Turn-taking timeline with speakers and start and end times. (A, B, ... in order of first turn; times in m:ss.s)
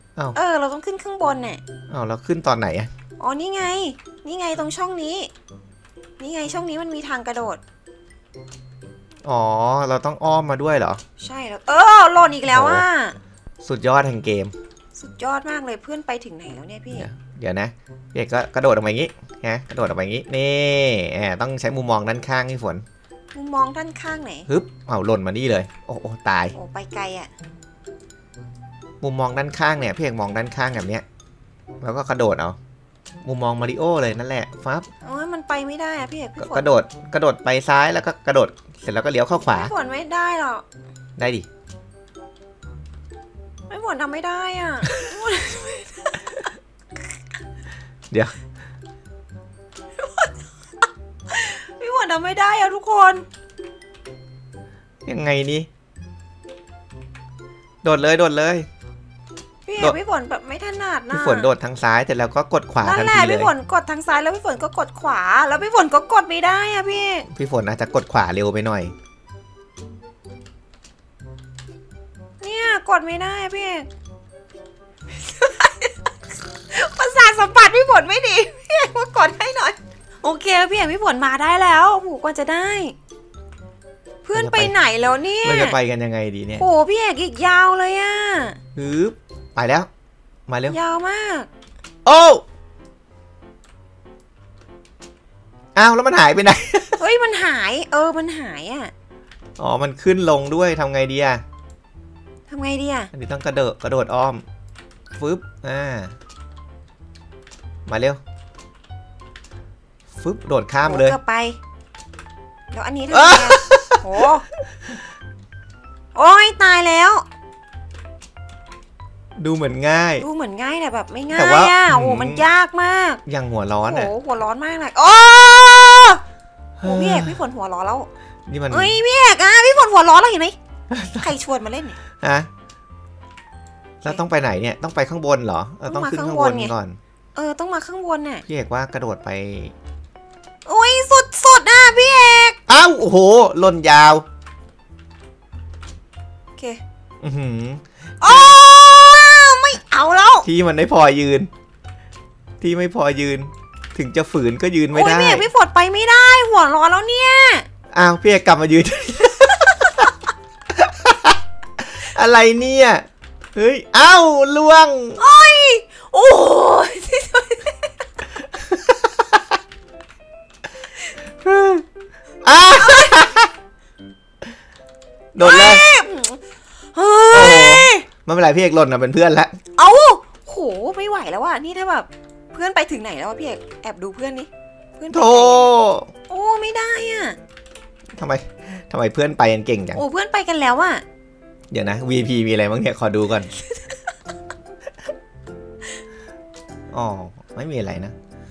0:00.3-0:01.6 A
0:01.9-0:02.9 B
0:03.2-0:05.3 A
0:06.2-0:07.6 A
0:09.2-0:11.0 B
0:11.2-0:13.2 A
0:12.5-0:12.9 B
0:13.6-0:14.5 B
0:15.0-0:17.1 A
0:16.9-0:22.8 B
0:23.3-0:24.5 A
0:24.5-0:26.6 B
0:26.5-0:27.3 A
0:29.0-0:31.0 B
0:31.8-0:32.6 B
0:33.2-0:34.9 B
0:35.0-0:36.7 A
0:36.4-0:39.7 B
0:39.3-0:40.6 A
0:41.2-0:41.5 B
0:43.7-0:46.5 A
0:50.0-0:53.3 A
0:55.1-0:55.7 B
0:57.8-0:58.7 B
0:59.7-1:01.5 A
1:01.1-1:03.5 B
1:02.8-1:07.3 A
1:07.3-1:08.9 B
1:12.4-1:13.9 A
1:15.1-1:16.1 A
1:16.7-1:23.0 A
1:24.2-1:25.8 A
1:24.3-1:24.7 B
1:25.4-1:26.6 B
1:26.6-1:28.6 A
1:28.8-1:29.9 B
1:30.5-1:30.8 B
1:30.7-1:31.5 A
1:32.0-1:32.4 B
1:35.8-1:37.0 B
1:37.0-1:38.9 A
1:39.6-1:41.4 B
1:42.5-1:43.1 A
1:43.1-1:44.4 B
1:45.2-1:46.1 B
1:47.9-1:48.2 B
1:50.2-1:51.2 B
1:50.9-1:51.6 A
1:52.7-1:54.5 A
1:53.1-1:54.0 B
1:56.2-1:57.3 A
1:59.4-2:00.2 B
2:00.2-2:03.2 A
2:01.3-2:02.4 B
2:03.3-2:04.1 B
2:03.8-2:06.2 A
2:06.8-2:07.4 B
2:06.8-2:08.1 A
2:08.5-2:09.0 B
2:08.7-2:10.6 A
2:10.9-2:11.3 B
2:11.2-2:12.0 A
2:12.2-2:12.5 B
2:14.0-2:17.0 B
2:15.8-2:16.7 A
2:17.4-2:18.4 A
2:18.5-2:19.7 B
2:20.7-2:22.6 A
2:22.7-2:24.2 B
2:27.2-2:28.6 B
2:28.2-2:30.5 A
2:30.4-2:31.5 B
2:32.6-2:35.5 B
2:34.9-2:37.7 A
2:37.9-2:40.1 B
2:40.8-2:45.2 B
2:45.2-2:47.9 A
2:51.4-2:51.8 B
2:52.4-2:53.5 B
2:52.7-2:53.2 A
2:55.3-2:55.8 B
2:55.4-2:56.4 A
2:56.9-2:58.1 A
2:57.3-2:59.5 B
2:59.8-3:05.7 A
3:05.1-3:06.1 B
3:06.3-3:07.4 A
3:08.2-3:10.0 B
3:10.0-3:11.0 A
3:11.7-3:13.5 B
3:16.9-3:18.2 B